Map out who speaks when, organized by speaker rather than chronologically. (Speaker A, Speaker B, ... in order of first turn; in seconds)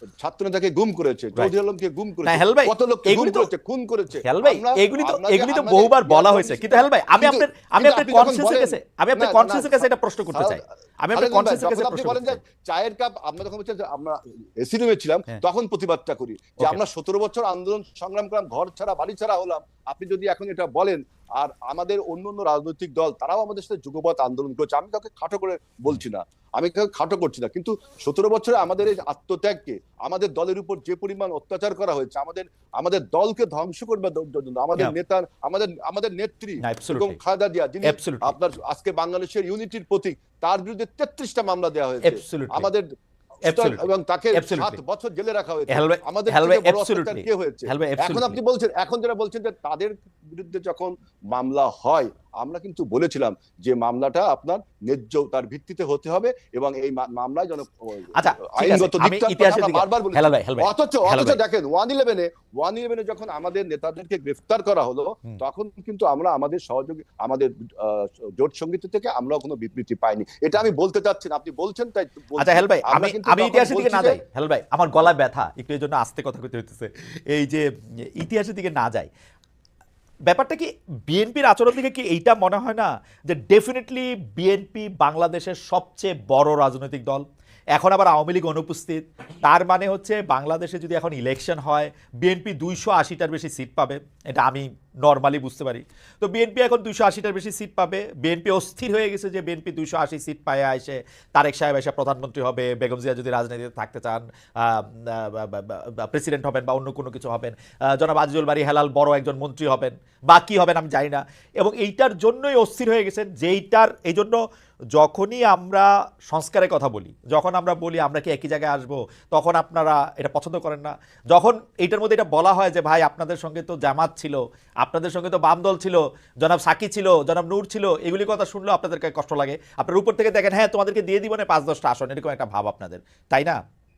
Speaker A: 0.2-10.6, 11.1-42.9, 43.5-74.2
Speaker B: 2.2-3.5, 4.2-12.4, 36.6-37.2, 37.8-38.4, 42.0-42.7, 43.5-44.8, 45.7-48.4, 58.1-61.4, 72.4-77.6, 78.2-79.1, 80.3-87.2, 87.8-114.4, 114.9-133.6